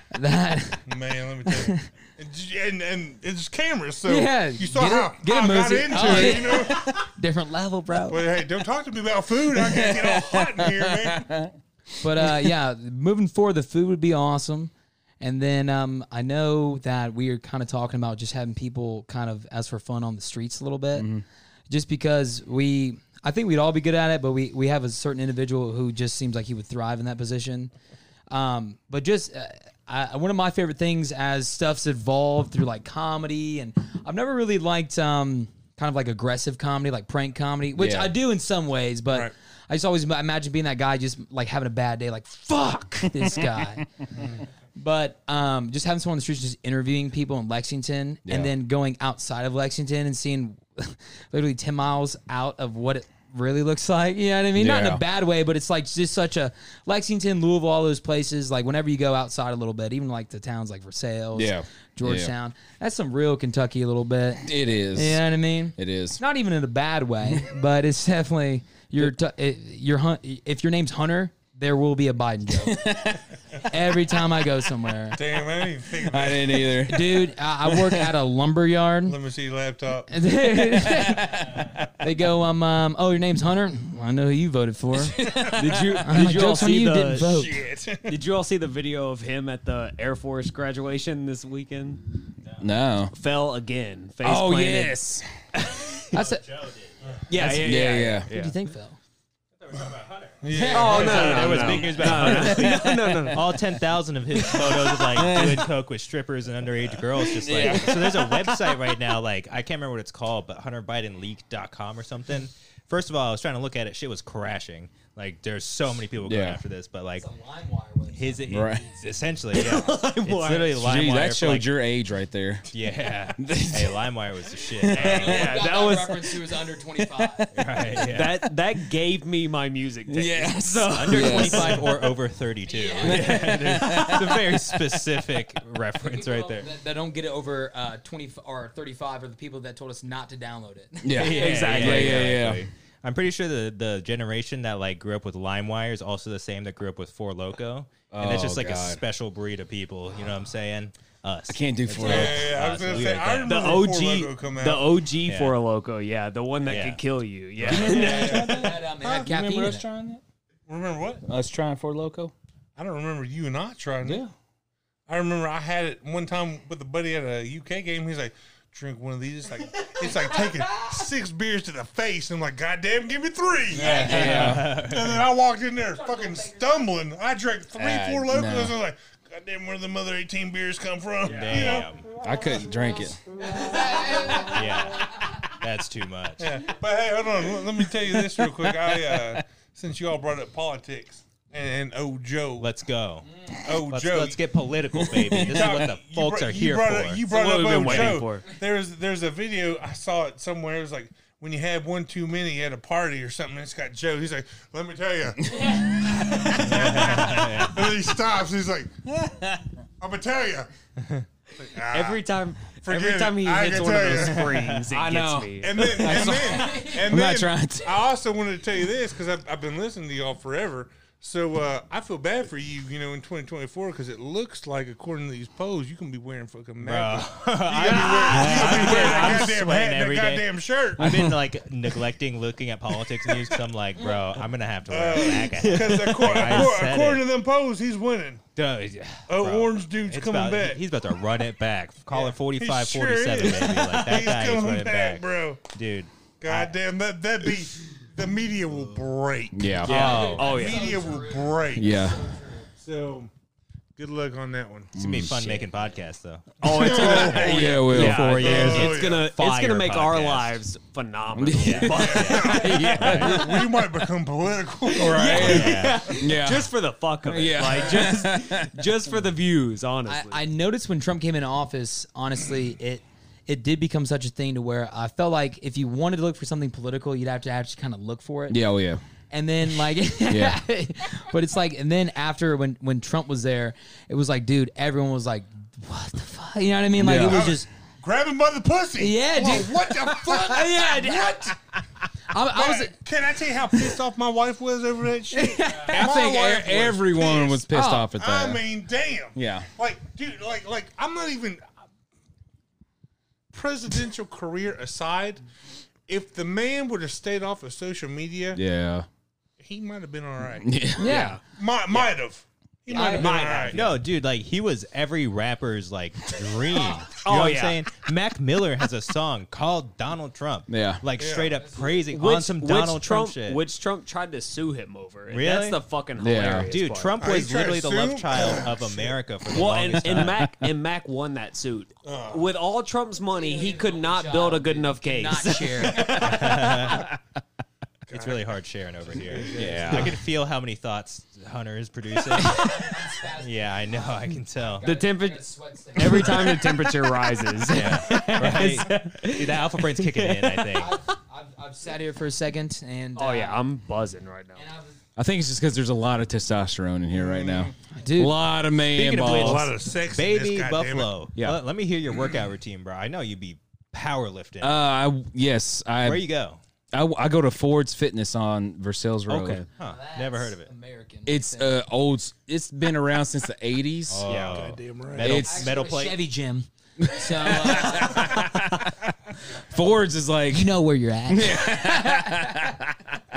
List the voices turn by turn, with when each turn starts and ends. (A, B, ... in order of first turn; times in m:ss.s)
0:00.1-0:00.8 A
0:00.9-0:07.1 B
0:01.5-0:01.8 A
0:04.1-0:08.2 A
0:06.0-0:06.5 C
0:08.1-0:11.3 B
0:09.5-0:11.5 C
0:12.0-0:21.1 A
0:12.2-0:12.5 C
0:21.0-0:21.2 C
0:21.7-0:27.7 A
0:28.3-0:43.9 A
0:37.8-0:38.2 C
0:43.1-0:43.9 C
0:44.1-0:44.4 B
0:44.8-1:12.9 A
0:48.3-0:48.5 C
0:54.6-0:55.0 C
1:01.4-1:02.3 C
1:04.4-1:06.2 C
1:12.6-1:13.2 C
1:13.6-1:15.2 A
1:15.1-1:16.7 B
1:16.0-1:18.2 C
1:16.9-1:19.2 A
1:19.1-1:20.1 B
1:20.1-1:25.2 A
1:20.8-1:21.6 C
1:25.2-1:25.9 B
1:25.4-1:27.3 D
1:26.0-1:27.6 A
1:27.2-1:28.2 B
1:28.1-1:32.0 D
1:32.6-1:33.1 C
1:33.1-1:35.0 D
1:34.2-1:35.2 C
1:35.5-1:36.2 D
1:36.1-1:37.2 E
1:36.1-1:36.4 A
1:37.3-1:38.6 D
1:37.4-1:38.3 C
1:37.4-1:39.0 A
1:39.6-1:57.3 E
1:40.4-1:42.3 B
1:40.7-1:43.6 D
1:42.1-1:43.3 C
1:44.5-1:45.7 C
1:47.2-1:48.2 C
1:47.5-1:48.8 D
1:56.2-1:56.6 C
1:57.2-1:58.4 A
1:58.1-2:01.7 E
1:58.5-1:58.8 C
1:59.5-2:00.8 D
2:00.8-2:02.7 C
2:02.7-2:05.6 E
2:03.4-2:04.1 C
2:04.9-2:05.6 C
2:04.9-2:06.4 D
2:05.1-2:07.5 A
2:07.0-2:08.5 C
2:07.6-2:08.4 E
2:08.0-2:11.8 D
2:10.1-2:11.9 C
2:10.9-2:16.7 E
2:11.2-2:11.8 A
2:12.7-2:13.7 A
2:13.0-2:14.8 C
2:16.0-2:21.4 A
2:21.0-2:22.7 C
2:21.2-2:33.8 E
2:21.3-2:22.3 D
2:28.1-2:29.0 C
2:31.5-2:33.1 C
2:32.0-2:34.9 B
2:33.4-2:38.7 D
2:35.3-2:35.6 E
2:36.7-2:37.0 E
2:37.6-2:37.9 E
2:37.6-2:40.2 C
2:37.8-2:39.3 B
2:38.3-2:39.9 A
2:40.7-2:41.2 B
2:41.3-2:42.3 C
2:42.8-2:44.2 B
2:44.0-2:44.3 C
2:45.1-3:01.9 B
2:53.7-2:54.8 C
2:53.7-2:55.3 E
2:55.9-2:56.9 A
2:57.8-2:58.8 C
3:01.2-3:02.1 E
3:02.2-3:03.2 C
3:03.4-3:05.0 A
3:03.5-3:04.5 B
3:04.5-3:06.5 E
3:06.4-3:12.7 B
3:08.3-3:08.7 C
3:12.6-3:17.3 E
3:13.5-3:14.4 B
3:15.0-3:15.8 C
3:15.3-3:28.9 B
3:17.3-3:18.6 D
3:17.8-3:18.2 E
3:25.5-3:26.9 C
3:26.6-3:27.9 E
3:29.1-3:29.7 C
3:30.0-3:30.7 B
3:31.0-3:31.2 E
3:31.6-3:32.2 B
3:31.9-3:36.3 D
3:32.8-3:34.7 B
3:34.1-3:34.8 E
3:34.9-3:38.0 C
3:35.6-3:51.2 B
3:36.6-3:37.0 A
3:46.8-3:57.2 E
3:48.1-3:49.5 D
3:51.0-3:51.4 C
3:53.2-3:53.6 B
3:54.9-3:58.4 B
3:58.6-4:06.7 E
3:59.3-4:00.8 B
4:02.1-4:05.6 B
4:06.4-4:12.1 B
4:09.5-4:09.9 C
4:09.8-4:10.8 E
4:09.9-4:10.9 D
4:09.9-4:12.6 A
4:11.8-4:12.2 C
4:12.7-4:13.3 B
4:14.0-4:14.9 B
4:15.0-4:15.6 C
4:15.0-4:20.6 E
4:16.6-4:19.3 B
4:16.6-4:23.3 D
4:16.8-4:19.0 C
4:21.4-4:23.8 C
4:21.6-4:23.3 E
4:21.9-4:26.1 B
4:24.9-4:30.4 D
4:25.2-4:26.7 C
4:25.3-4:26.0 E
4:27.2-4:28.7 C
4:30.1-4:38.6 A
4:38.5-4:39.0 C
4:39.3-4:47.7 A
4:40.3-4:40.6 C
4:47.0-4:47.5 C
4:47.2-4:51.5 B
4:49.0-4:51.6 A
4:52.3-4:52.9 A
4:52.5-5:01.7 B
4:55.3-4:56.0 A
4:55.8-4:58.6 C
4:57.7-4:58.1 A
4:59.4-4:59.7 C
5:03.5-5:05.4 B
5:06.1-5:08.6 B
5:08.6-5:09.1 C
5:09.6-5:13.9 B
5:10.6-5:11.2 C
5:11.0-5:11.4 D
5:11.1-5:11.3 A
5:12.9-5:13.7 A
5:12.9-5:14.0 D
5:13.7-5:23.6 E
5:17.1-5:17.8 D
5:20.7-5:21.0 C
5:21.2-5:21.6 B
5:22.0-5:27.2 D
5:25.3-5:25.8 E
5:26.2-5:26.7 C
5:26.5-5:30.4 E
5:27.2-5:29.2 B
5:29.5-5:36.2 D
5:30.1-5:30.6 C
5:32.0-5:32.5 B
5:33.3-5:36.4 A
5:36.0-5:36.5 B
5:36.1-5:37.1 E
5:38.1-5:38.4 B
5:38.1-5:44.9 E
5:39.1-5:40.2 B
5:39.6-5:40.2 C
5:42.4-5:46.8 A
5:44.8-5:50.8 D
5:47.7-5:50.9 E
5:50.8-5:53.6 A
5:53.2-5:54.6 D
5:54.6-5:55.0 A
5:55.2-5:59.7 C
5:57.1-5:57.7 B
5:57.9-5:58.4 A
5:58.9-6:04.8 E
5:59.3-6:01.1 B
6:04.6-6:06.2 C
6:06.0-6:06.6 E
6:06.9-6:09.6 C
6:09.3-6:10.7 E
6:09.8-6:11.8 A
6:11.3-6:14.3 C
6:14.1-6:16.2 E
6:14.3-6:15.4 B
6:15.2-6:15.7 C
6:15.3-6:18.3 A
6:17.0-6:19.0 C
6:19.5-6:20.8 C
6:20.5-6:22.4 A
6:21.3-6:23.2 C